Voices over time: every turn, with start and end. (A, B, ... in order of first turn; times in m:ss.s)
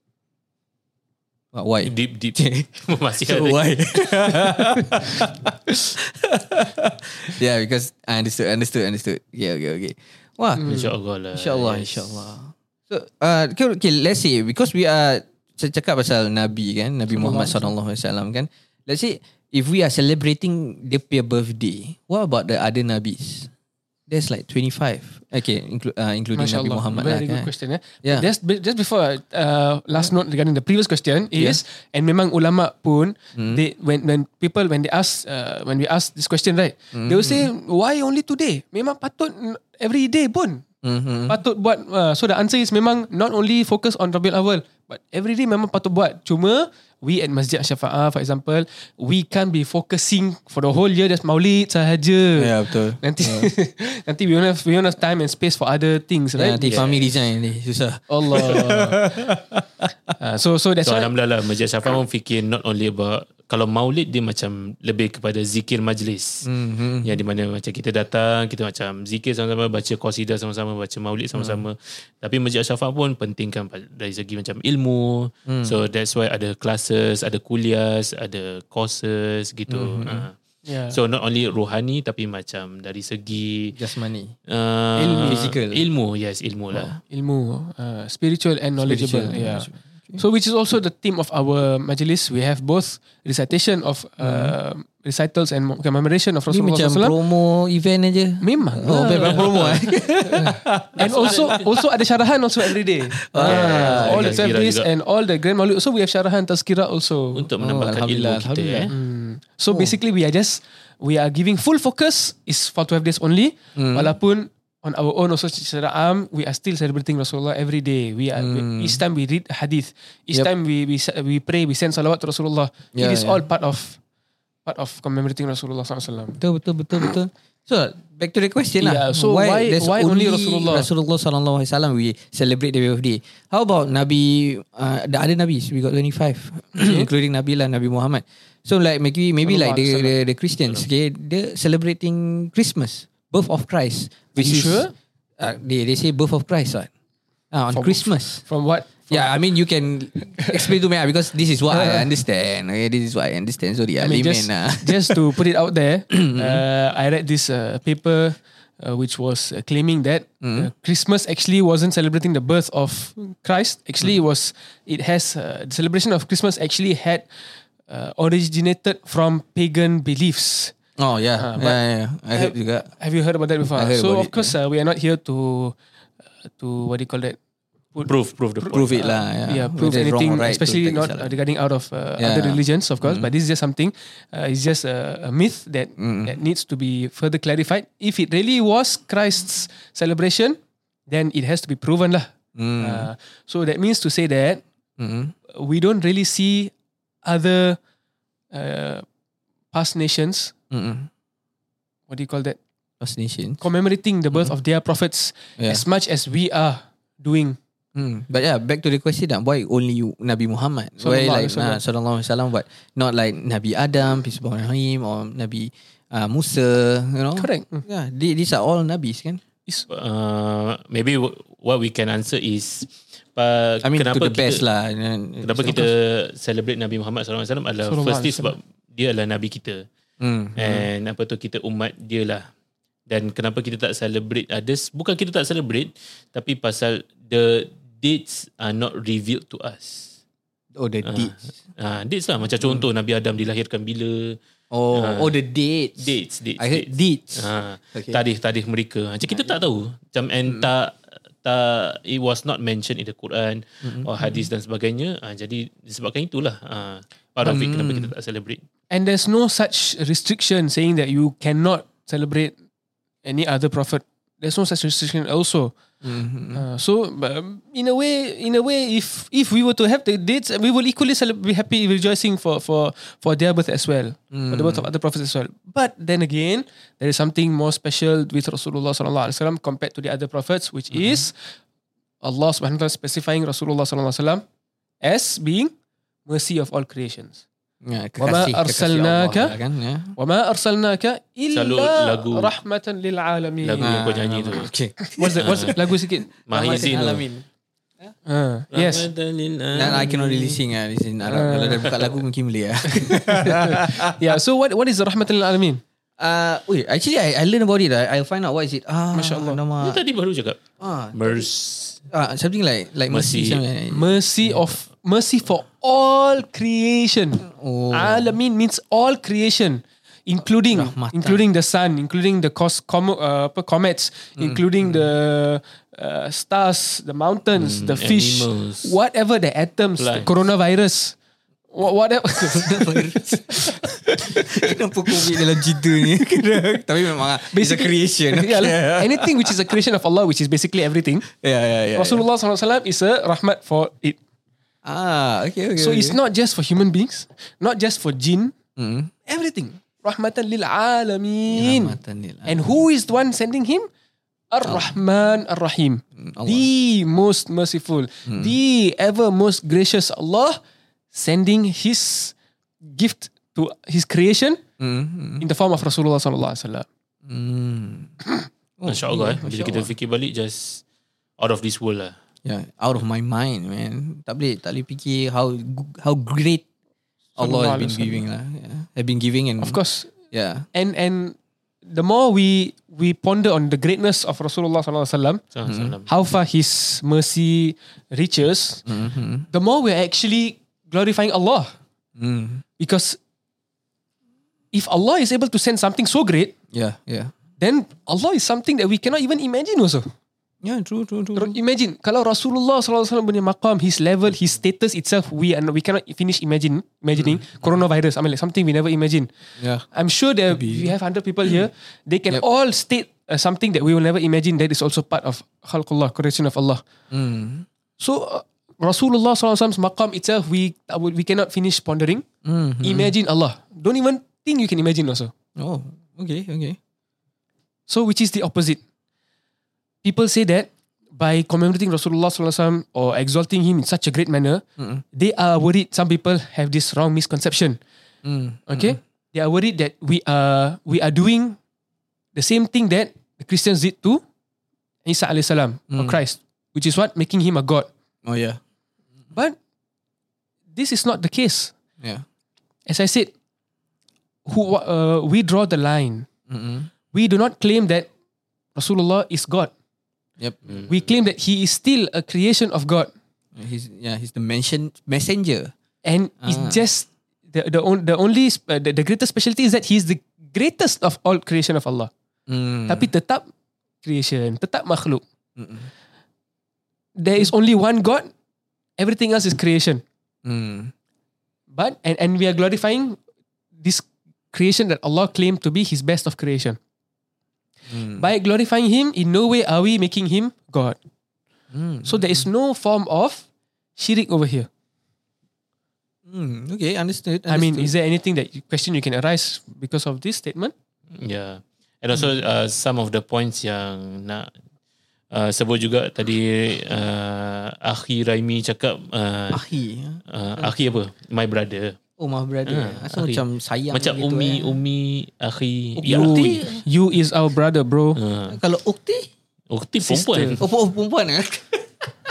0:01.5-0:02.7 A
0:01.8-0:04.6 B
0:03.2-0:10.8 A
0:10.6-0:10.9 C
0:10.6-0:12.3 B
0:11.3-0:23.5 A
0:17.2-0:17.7 C
0:24.1-0:27.5 A
0:26.4-0:40.6 C
0:33.4-0:33.6 A
0:36.9-0:37.5 A
0:40.8-0:41.4 A
0:41.3-0:56.8 C
0:52.4-0:53.5 A
0:56.4-1:00.1 A
0:56.6-0:57.1 B
0:58.1-0:59.2 C
1:00.2-1:01.1 C
1:00.8-1:06.5 B
1:06.4-1:07.2 A
1:07.0-1:20.4 B
1:11.3-1:11.6 A
1:15.5-1:15.8 A
1:19.7-1:20.3 A
1:20.7-1:21.0 C
1:20.9-1:23.8 B
1:23.8-1:24.3 A
1:24.5-1:27.0 B
1:25.0-1:25.5 C
1:25.0-1:25.8 A
1:26.7-1:27.0 A
1:27.1-1:37.2 C
1:28.8-1:30.2 A
1:34.2-1:34.6 A
1:36.5-1:41.8 A
1:38.4-1:47.5 C
1:39.0-1:40.0 B
1:41.0-1:41.6 B
1:43.1-1:44.4 A
1:43.4-1:44.9 B
1:47.4-1:48.9 B
1:47.6-1:48.9 A
1:48.9-2:04.0 C
1:49.7-1:50.0 A
1:53.8-1:54.1 A
1:58.4-1:59.0 A
2:02.9-2:03.4 A
2:04.7-2:06.4 C
2:06.4-2:24.9 A
2:08.8-2:10.9 C
2:16.8-2:17.1 C
2:19.4-2:20.2 C
2:24.4-2:24.9 C
2:25.4-2:26.9 A
2:27.5-2:28.4 A
2:27.7-2:29.4 C
2:29.1-2:35.2 A
2:30.4-2:30.8 C
2:31.7-2:32.1 C
2:34.0-2:47.3 C
2:36.1-2:36.6 A
2:40.4-2:40.7 A
2:47.9-2:50.8 C
2:51.0-2:52.9 A
2:51.4-2:51.8 C
2:52.3-2:55.8 C
2:53.8-2:54.6 A
2:56.5-2:57.4 C
2:57.9-3:14.6 C
2:58.0-2:59.0 B
2:58.7-3:01.4 A
3:02.2-3:03.3 A
3:06.0-3:06.4 A
3:12.6-3:13.1 A
3:15.0-3:15.3 A
3:15.5-3:16.7 C
3:17.2-3:17.8 C
3:18.5-3:19.0 C
3:19.7-3:20.5 C
3:20.7-3:21.1 A
3:22.1-3:22.6 C
3:23.0-3:23.6 A
3:23.6-3:27.6 C
3:25.6-3:25.8 A
3:28.0-3:39.4 A
3:31.0-3:31.8 C
3:37.4-3:37.8 C
3:39.9-3:44.6 B
3:43.8-3:45.9 A
3:45.4-3:49.9 B
3:47.8-3:48.6 C
3:50.2-3:50.9 A
3:50.6-3:52.5 B
3:53.1-4:00.1 B
4:00.8-4:01.4 A
4:01.0-4:04.4 B
4:04.7-4:08.2 A
4:04.9-4:05.3 B
4:06.0-4:18.6 B
4:13.8-4:14.4 A
4:17.4-4:18.1 A
4:18.9-4:22.6 C
4:23.2-4:25.8 C
4:26.0-4:26.6 A
4:26.5-4:41.4 C
4:34.3-4:34.9 A
4:40.9-4:41.2 A
4:42.2-4:44.4 C
4:45.0-4:45.7 C
4:46.3-4:47.4 C
4:47.8-4:50.2 A
4:48.2-4:49.6 C
4:50.2-4:53.9 C
4:51.5-4:52.5 B
4:53.6-4:54.7 B
4:53.8-4:57.5 A
4:55.0-4:56.3 C
4:55.4-4:55.8 B
4:56.5-4:57.3 B
4:58.3-4:59.1 C
4:58.7-5:00.3 B
4:59.7-5:04.2 A
4:59.9-5:00.3 C
5:01.3-5:02.0 C
5:02.9-5:05.8 C
5:06.2-5:10.0 A
5:09.1-5:09.6 C
5:09.8-5:12.0 B
5:10.8-5:11.4 A
5:12.1-5:14.2 A
5:13.1-5:13.6 B
5:13.9-5:31.2 C
5:17.4-5:18.4 A
5:20.7-5:21.4 A
5:24.4-5:24.6 A
5:27.6-5:29.0 B
5:30.0-5:30.4 B
5:31.7-5:35.4 C
5:32.5-5:39.5 A
5:36.1-5:36.8 C
5:37.4-5:41.3 C
5:41.3-5:42.3 A
5:42.0-5:44.2 C
5:44.8-5:46.2 A
5:45.8-5:48.6 C
5:48.8-5:49.1 A
5:49.3-5:53.9 C
5:51.5-5:52.8 A
5:54.5-6:00.6 C
5:56.2-5:56.7 A
5:58.3-5:58.5 A
6:01.1-6:04.6 C
6:04.8-6:05.5 A
6:05.4-6:06.9 C
6:07.2-6:08.1 A
6:08.8-6:09.9 A
6:08.9-6:10.8 B
6:11.4-6:12.2 B
6:12.4-6:16.6 A
6:17.4-6:18.2 C
6:17.4-6:19.8 A
6:19.6-6:20.1 C
6:20.3-6:20.7 A
6:20.7-6:25.4 C
6:25.5-6:26.1 B
6:25.7-6:26.0 A
6:26.1-6:28.8 C
6:28.9-6:29.5 A
6:29.5-6:31.8 C
6:32.2-6:32.6 A
6:32.8-6:33.2 C
6:34.7-6:36.5 C
6:36.7-6:37.3 A
6:37.6-6:40.1 C
6:40.6-6:41.6 A
6:41.4-6:49.3 C
6:47.2-6:47.4 A
6:49.6-6:49.9 A
6:49.9-6:56.8 C
6:50.5-6:50.9 A
6:57.1-6:57.7 A
6:58.0-7:02.2 C
7:02.4-7:03.1 A
7:02.8-7:05.3 C
7:05.6-7:06.8 A
7:07.9-7:08.8 C
7:10.0-7:17.8 C
7:14.8-7:15.0 A
7:18.2-7:19.0 A
7:18.7-7:21.6 C
7:22.4-7:24.2 C
7:25.0-7:27.9 C
7:25.9-7:26.2 A
7:28.2-7:28.6 A
7:30.7-7:31.7 C
7:32.0-7:32.2 A
7:32.9-7:33.3 C
7:34.5-7:36.3 C
7:36.5-7:36.9 A
7:37.1-7:38.1 C
7:38.8-7:39.7 C
7:40.7-7:41.0 B
7:40.9-7:43.1 C
7:43.6-7:45.7 A
7:46.0-7:52.1 C
7:46.4-7:46.8 A
7:52.5-7:53.1 A
7:52.9-7:53.5 C
7:54.0-7:55.2 C
7:55.6-7:55.9 A
7:57.2-7:58.3 C
7:59.0-8:00.0 C
8:00.4-8:00.9 A
8:01.7-8:03.2 C
8:03.8-8:06.8 C
8:07.9-8:08.3 A
8:08.2-8:11.0 C
8:11.7-8:12.5 A
8:12.0-8:13.5 C
8:14.0-8:14.7 C
8:16.3-8:17.9 A
8:17.5-8:20.7 C
8:21.1-8:24.5 B
8:25.3-8:29.6 B
8:29.5-8:30.7 A
8:30.3-8:32.0 B
8:32.2-8:34.8 A
8:32.7-8:36.8 B
8:36.0-8:36.8 A
8:36.0-8:38.2 C
8:38.2-8:38.6 B
8:38.5-8:39.3 A
8:39.7-8:40.6 B
8:40.0-8:40.6 C
8:40.6-8:41.9 A